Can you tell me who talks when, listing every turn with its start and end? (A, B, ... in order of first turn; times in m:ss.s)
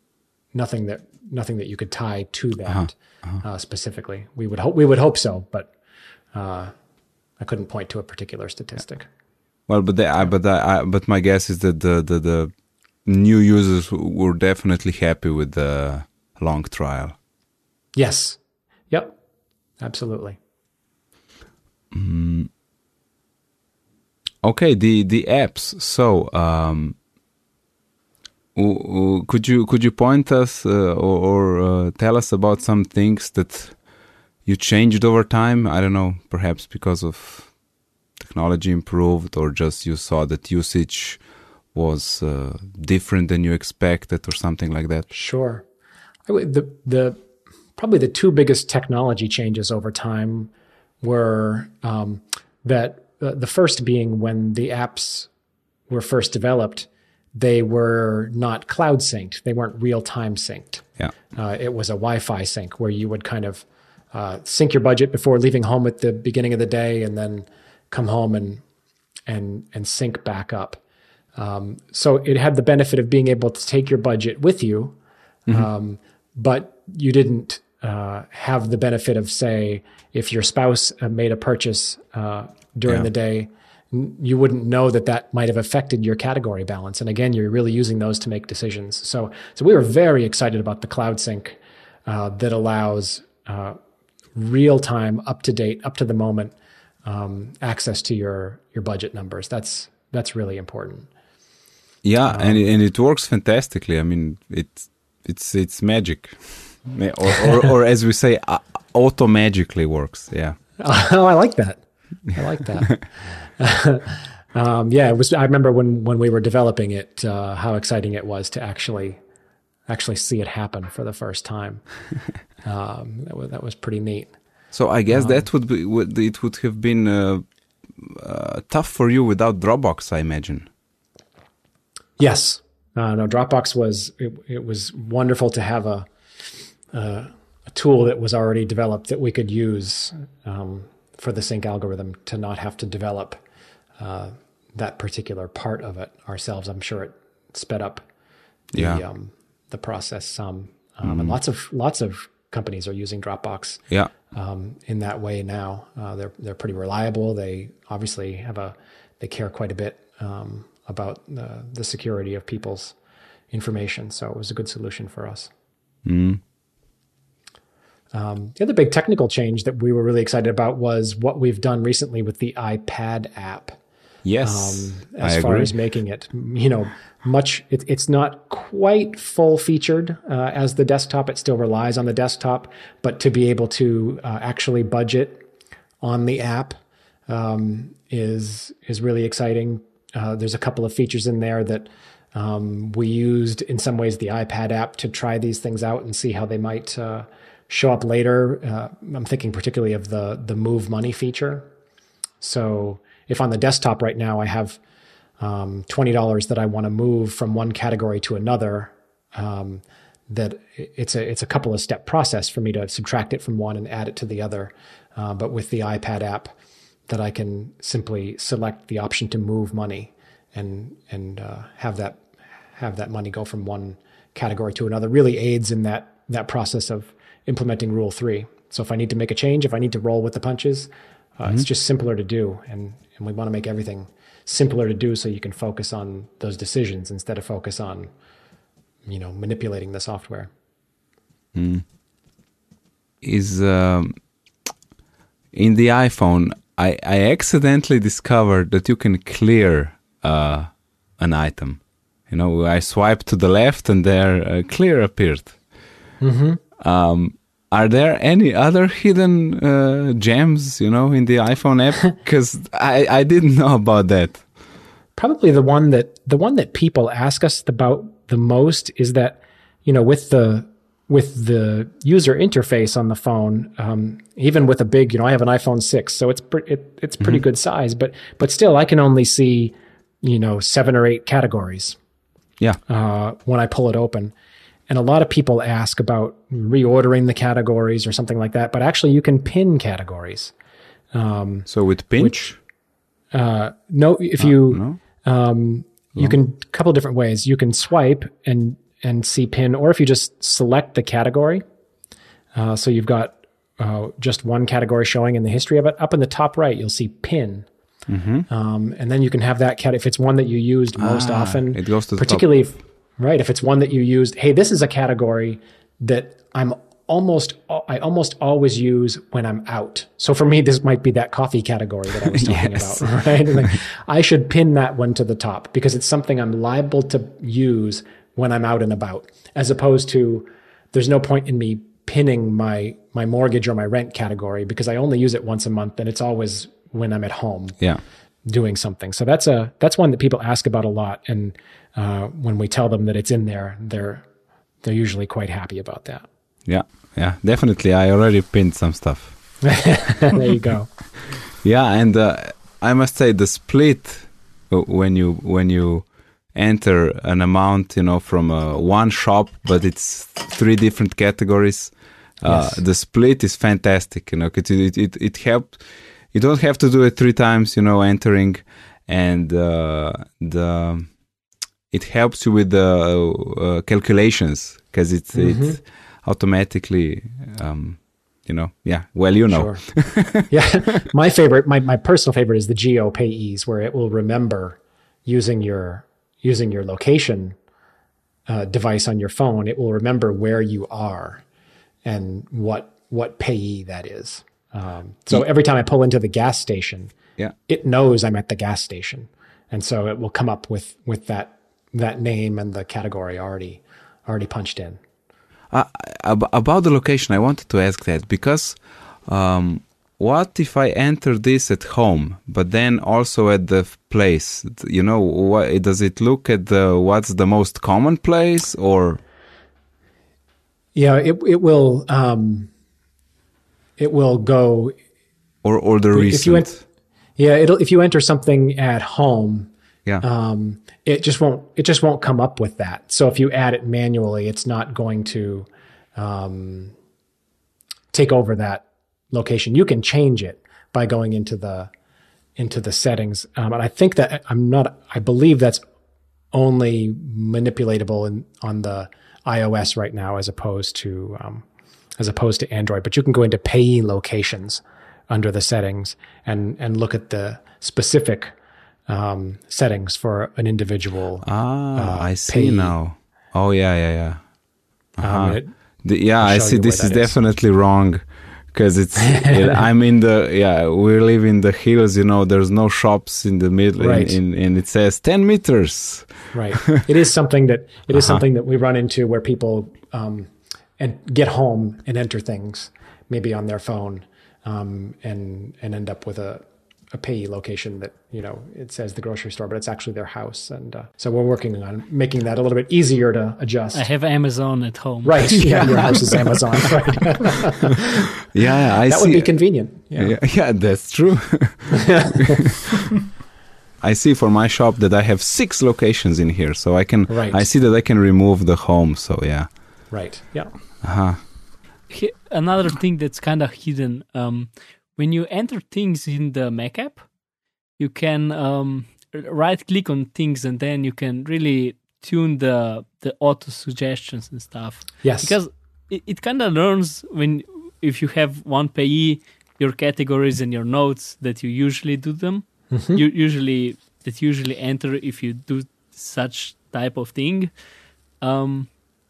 0:00.5-0:05.7 A
0:02.7-0:03.4 B
0:06.3-0:06.7 A
0:07.4-0:09.1 A
0:09.7-0:12.5 B
0:13.0-0:17.2 B
0:17.9-0:18.4 A
0:18.9-0:19.1 A
0:19.8-0:20.4 A
0:21.9-0:22.5 B
0:24.4-0:27.0 B
0:28.5-0:33.8 B
0:34.4-0:37.5 B
0:38.2-0:41.2 B
0:41.7-0:45.1 B
0:45.1-0:45.6 A
0:46.3-0:47.2 A
0:47.8-0:55.3 A
0:55.9-1:08.6 A
1:09.3-1:10.8 A
1:11.4-1:15.0 A
1:15.5-1:33.8 A
1:34.4-1:41.1 A
1:42.0-1:50.6 B
1:42.3-1:42.6 A
1:50.8-1:59.2 A
1:59.9-2:01.8 A
2:02.6-2:04.3 A
2:04.7-2:07.4 B
2:05.1-2:05.4 A
2:08.0-2:10.7 B
2:12.2-2:16.1 A
2:16.9-2:23.4 A
2:24.0-2:28.0 A
2:28.7-2:29.0 B
2:28.7-2:42.9 A
2:31.0-2:31.4 B
2:43.5-2:45.5 A
2:46.0-2:46.4 B
2:48.1-2:53.8 A
2:54.2-2:55.7 B
2:54.4-3:05.4 A
3:06.0-3:06.8 A
3:07.3-3:21.7 A
3:22.4-3:24.8 A
3:25.4-3:36.5 A
3:37.1-3:58.1 A
3:59.0-4:00.5 A
4:01.5-4:01.8 B
4:03.2-4:04.2 B
4:05.5-4:15.6 B
4:16.2-4:16.6 A
4:16.8-4:24.4 B
4:25.2-4:42.0 A
4:42.9-4:44.3 A
4:44.9-4:50.5 A
4:51.1-4:52.5 A
4:51.7-4:52.6 B
4:53.3-5:01.6 A
4:54.4-4:55.0 B
5:02.5-5:07.7 A
5:08.1-5:08.4 B
5:08.5-5:37.8 A
5:11.0-5:12.4 B
5:22.3-5:23.2 B
5:38.4-5:44.2 A
5:44.8-5:46.2 A
5:46.6-5:49.4 B
5:49.6-5:50.9 A
5:51.6-6:11.2 B
6:02.4-6:02.8 A
6:11.9-6:20.5 B
6:15.3-6:15.8 A
6:19.5-6:27.6 A
6:28.5-6:31.4 A
6:32.0-6:37.1 A
6:37.7-6:45.0 A
6:45.7-6:59.2 B
7:00.9-7:02.7 A
7:04.0-7:05.0 A
7:05.6-7:06.8 B
7:06.1-7:06.7 A
7:07.4-7:09.7 A
7:10.2-7:16.9 A
7:18.1-7:21.9 A
7:22.6-7:25.8 A
7:26.5-7:31.6 A
7:32.2-7:38.5 A
7:39.1-7:42.9 A
7:41.4-7:44.4 B
7:45.2-7:56.3 B
7:45.2-7:45.7 A
7:46.4-7:47.4 A
7:54.0-7:54.4 A
7:56.5-8:14.0 A
7:58.1-7:58.4 B
8:13.9-8:16.3 C
8:15.2-8:18.2 A
8:15.6-8:16.0 B
8:18.5-8:22.8 B
8:19.0-8:20.4 A
8:22.0-8:22.6 A
8:24.0-8:29.7 B
8:27.3-8:27.6 A
8:30.1-8:30.7 A
8:31.0-8:31.4 B
8:32.1-8:37.2 C
8:38.0-8:57.7 C
8:45.2-8:45.6 A
8:52.9-8:53.2 A
8:58.4-8:58.9 C